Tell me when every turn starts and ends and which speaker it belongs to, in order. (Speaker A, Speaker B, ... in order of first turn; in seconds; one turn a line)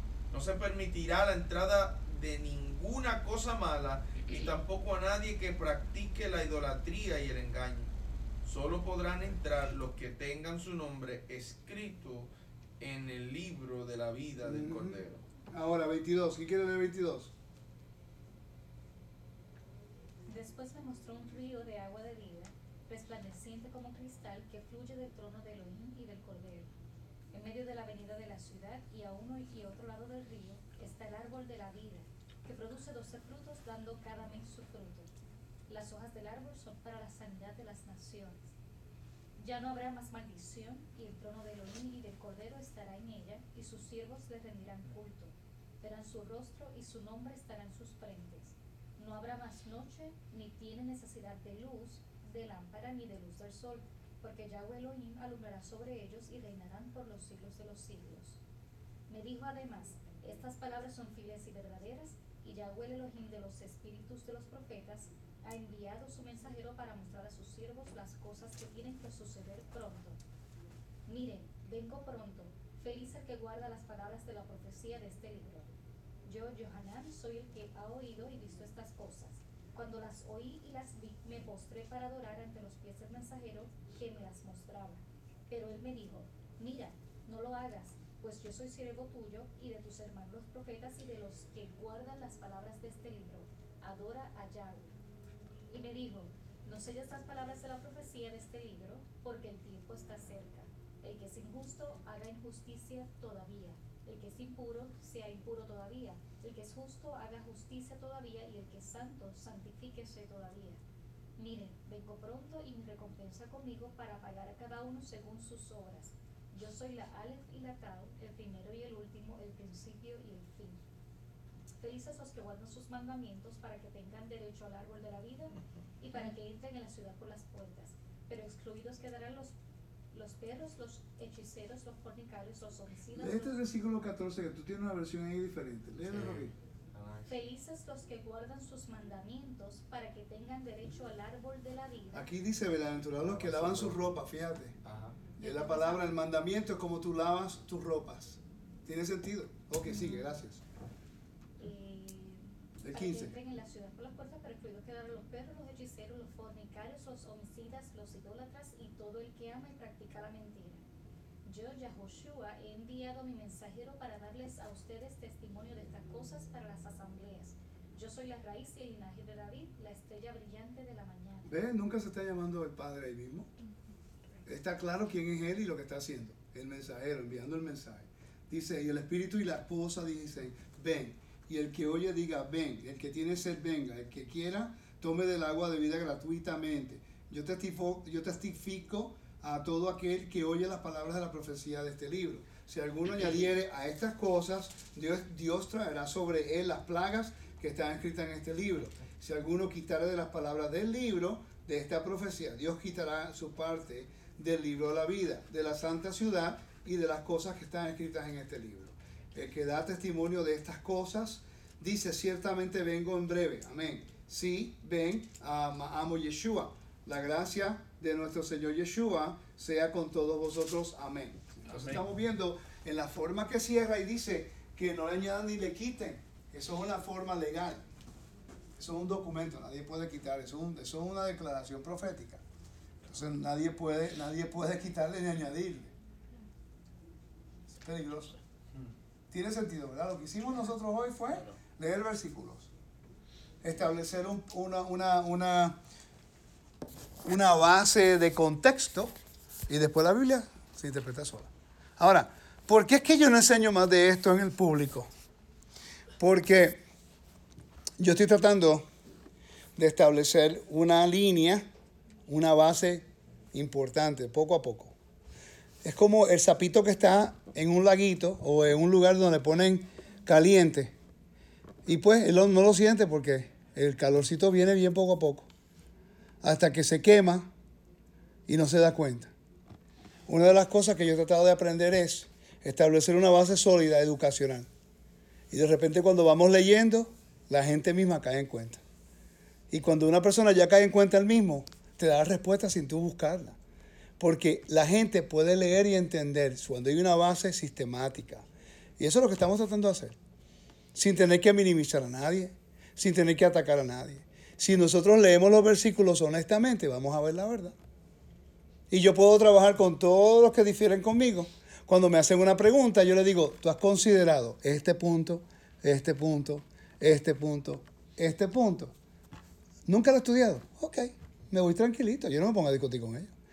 Speaker A: 0.3-7.9
Speaker A: 8.4-15.2
Speaker B: 14.4-17.3
Speaker C: 20.3-26.7
Speaker C: 27.3-35.1
Speaker C: 35.7-38.5
Speaker C: 39.4-58.4
Speaker C: 59.1-70.2
Speaker C: 71.1-75.7
Speaker C: 76.2-94.9
Speaker C: 95.7-110.8
Speaker C: 111.4-120.8
Speaker C: 121.8-129.6
Speaker C: 130.1-133.6
Speaker B: 133.1-136.5
Speaker A: 136.1-137.3
Speaker C: 137.2-142.3
Speaker B: 142.1-144.8
Speaker A: 143.3-144.0
Speaker A: 144.8-145.3
Speaker B: 145.4-150.6
Speaker C: 145.4-146.1
Speaker C: 149.9-150.3
Speaker C: 151.6-160.8
Speaker B: 152.8-153.3
Speaker C: 161.4-171.5
Speaker B: 171.4-173.5
Speaker B: 174.4-227.8
Speaker B: 228.8-232.4
Speaker B: 233.1-235.9
Speaker B: 237.8-238.3
Speaker B: 239.3-242.7
Speaker B: 243.6-245.8
Speaker B: 247.2-249.1
Speaker B: 249.7-255.1
Speaker B: 256.2-256.8
Speaker B: 258.0-258.9
Speaker B: 259.8-261.6
Speaker B: 262.3-264.9
Speaker B: 265.8-270.9
Speaker B: 271.9-275.5
Speaker B: 276.4-277.5
Speaker B: 278.5-279.3
Speaker B: 280.3-284.7
Speaker B: 285.5-288.8
Speaker B: 289.7-293.6
Speaker B: 294.2-298.4
Speaker B: 299.0-300.1
Speaker B: 300.9-307.7
Speaker B: 308.9-318.9
Speaker B: 319.9-323.3